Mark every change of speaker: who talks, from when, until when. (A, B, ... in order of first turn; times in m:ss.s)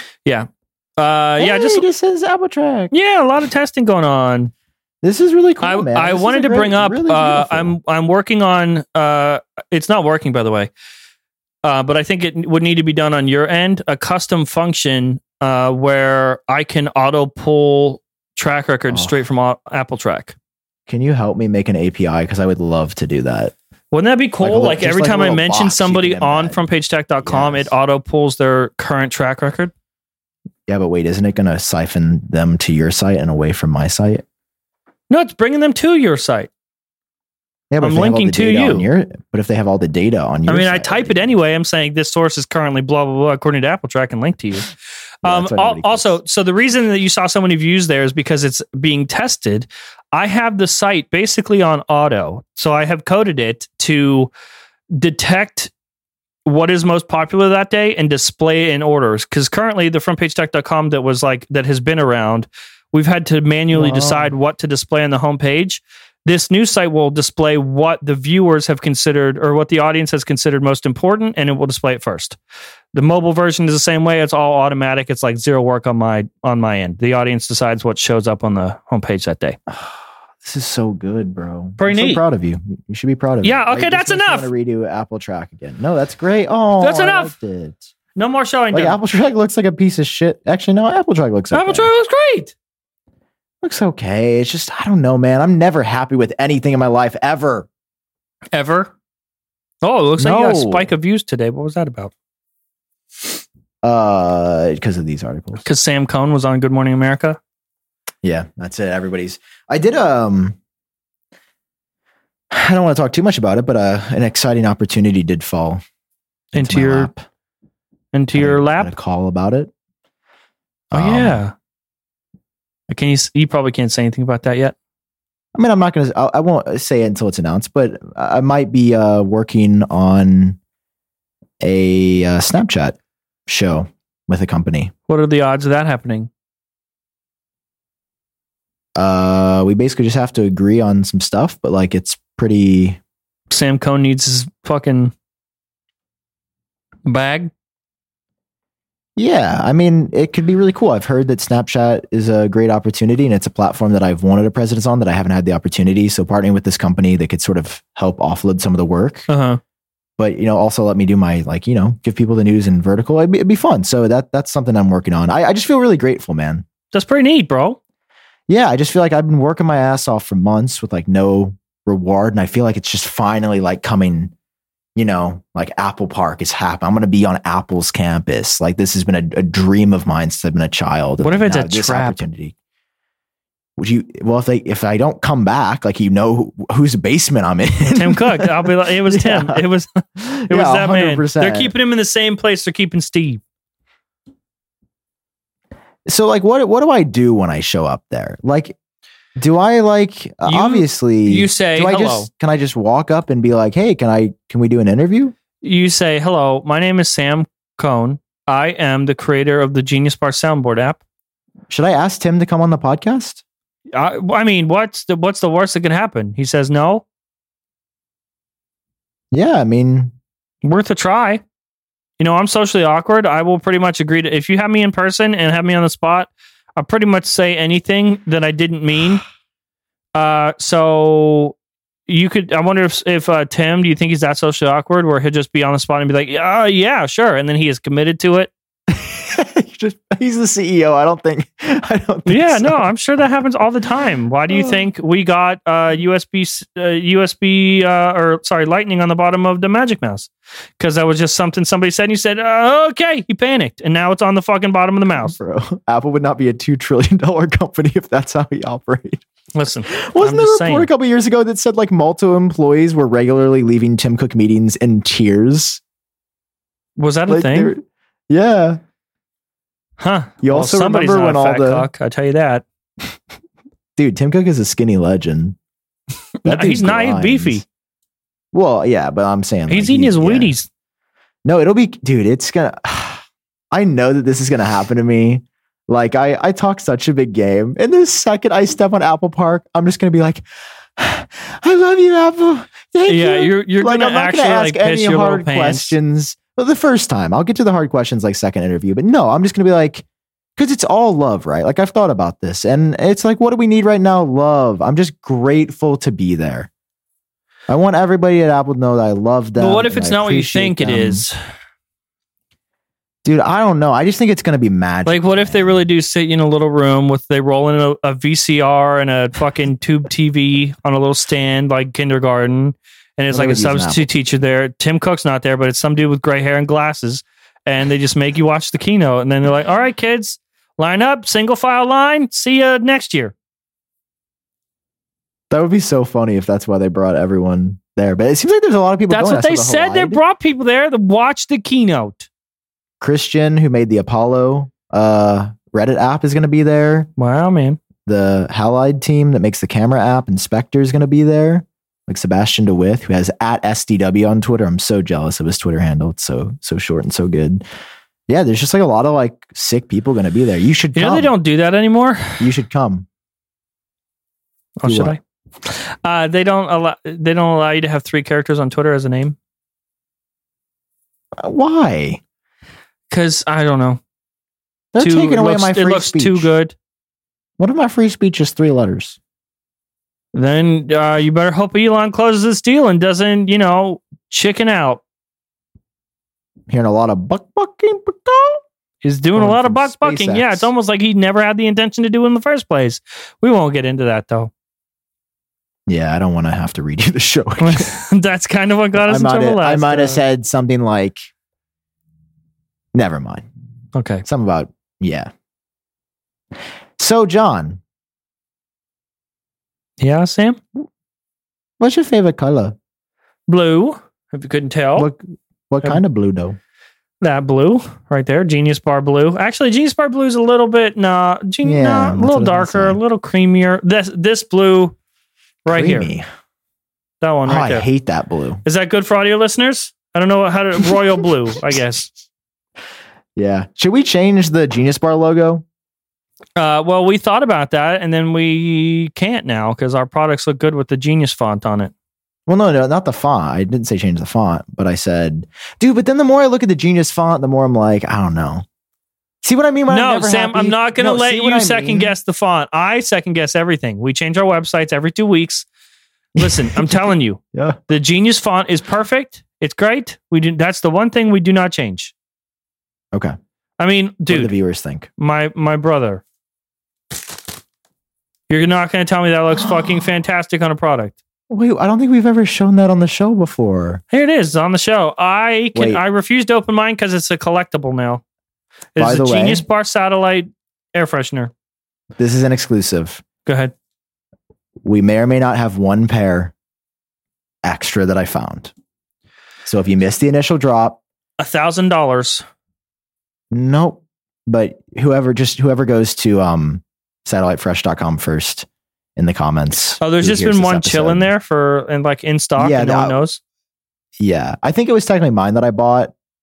0:00.2-0:01.8 A
0:01.4-0:02.9 B
0:02.9-0:04.5 A
0:05.0-0:07.8 B
0:05.6-0:10.7 A
0:11.6-0:20.4 A
0:18.9-0:19.2 B
0:20.9-0:23.5 B
0:23.9-0:29.7 A
0:24.4-0:26.6 B
0:27.2-0:27.7 B
0:30.7-0:34.2 B
0:35.1-0:36.5 A
0:37.7-0:41.4 B
0:37.8-0:38.9 A
0:40.5-0:44.7 A
0:45.2-0:46.2 B
0:45.2-0:54.3 A
0:54.9-0:55.7 A
0:56.5-1:12.4 A
1:03.7-1:04.3 B
1:12.9-1:19.6 A
1:19.7-1:27.8 B
1:21.8-1:22.2 A
1:23.4-1:24.5 A
1:26.8-1:27.3 A
1:28.2-1:29.0 A
1:28.7-1:31.9 B
1:31.5-1:32.5 A
1:33.6-1:37.7 B
1:38.5-1:38.9 A
1:39.8-1:42.1 A
1:40.2-1:40.9 B
1:43.8-1:45.6 B
1:45.6-1:47.4 A
1:48.2-1:50.6 B
1:52.5-1:55.8 B
1:56.5-1:57.1 A
1:56.5-1:57.3 B
1:58.1-1:59.0 A
1:58.3-1:59.7 B
2:00.9-2:01.4 B
2:00.9-2:01.5 A
2:02.9-2:04.8 A
2:05.6-2:10.6 B
2:11.6-2:14.9 B
2:15.1-2:16.3 A
2:19.0-2:23.0 B
2:23.5-2:25.1 A
2:27.1-2:27.5 A
2:29.2-2:39.3 B
2:39.3-2:39.6 A
2:40.2-2:46.7 B
2:46.9-2:47.8 A
2:48.5-2:54.3 B
2:55.0-3:02.6 B
3:01.2-3:02.2 A
3:03.8-3:09.6 B
3:07.9-3:13.4 A
3:10.2-3:11.7 B
3:16.1-3:18.8 B
3:19.4-3:25.4 B
3:20.5-3:22.3 A
3:25.6-3:31.0 A
3:31.7-3:33.4 B
3:33.9-3:37.0 A
3:39.3-3:40.1 B
3:40.6-3:41.4 A
3:42.2-3:49.2 A
3:50.2-3:51.6 A
3:52.1-3:58.5 A
3:58.9-4:02.8 B
4:02.3-4:15.4 A
4:04.5-4:04.9 B
4:15.2-4:19.2 B
4:19.6-4:20.9 A
4:19.9-4:25.8 B
4:27.0-4:27.7 A
4:27.3-4:28.8 B
4:30.0-4:32.6 A
4:30.4-4:31.9 B
4:34.0-4:35.6 B
4:36.4-4:37.6 A
4:36.4-4:37.6 B
4:38.5-4:40.5 B
4:39.7-4:40.7 A
4:41.4-4:50.4 B
4:51.0-5:00.1 B
4:53.1-4:55.9 A
5:00.6-5:06.7 B
5:07.7-5:11.3 B
5:09.6-5:11.4 A
5:13.2-5:15.8 B
5:15.1-5:33.3 A
5:23.3-5:24.1 B
5:35.5-5:40.2 B
5:39.1-5:42.3 A
5:43.0-5:47.1 B
5:47.2-5:47.8 A
5:48.1-5:57.6 B
5:58.3-6:01.3 B
6:01.0-6:02.4 A
6:02.4-6:03.1 B
6:04.8-6:09.4 A
6:04.8-6:05.2 B
6:11.4-6:12.2 B
6:13.1-6:14.0 A
6:14.9-6:16.5 B
6:15.0-6:16.8 A
6:17.6-6:19.2 B
6:20.3-6:25.0 A
6:26.7-6:28.6 B
6:29.0-6:34.5 A
6:29.4-6:30.7 B
6:35.9-6:37.9 B
6:37.6-6:40.2 A
6:39.0-6:41.3 B
6:42.9-6:43.5 B
6:44.0-6:44.2 A
6:44.2-6:45.3 B
6:47.0-6:47.8 B
6:50.0-6:50.6 A
6:51.8-6:52.8 B
6:53.5-6:55.1 A
6:55.0-6:56.6 B
6:57.2-7:05.0 A
7:01.6-7:03.0 B
7:05.6-7:06.1 A
7:05.7-7:06.2 B
7:07.2-7:07.9 A
7:07.5-7:08.6 B
7:08.6-7:12.1 A
7:13.4-7:15.6 B
7:16.6-7:21.9 A
7:22.5-7:28.6 B
7:29.4-7:32.1 B
7:29.9-7:35.7 A
7:36.4-7:37.8 B
7:36.4-7:42.1 A
7:43.8-7:44.5 A
7:44.3-7:45.1 B
7:45.2-7:46.2 A
7:48.5-7:51.2 A
7:51.5-7:54.0 B
7:54.1-7:58.2 A
7:55.8-7:56.0 B
7:59.0-8:01.5 A
7:59.0-7:59.6 B
8:02.2-8:03.2 B
8:03.5-8:03.7 A
8:04.8-8:06.5 B
8:07.6-8:08.7 B
8:09.6-8:11.0 B
8:11.4-8:12.4 A
8:13.5-8:21.3 B
8:20.0-8:23.4 A
8:22.6-8:23.2 B
8:24.2-8:26.1 B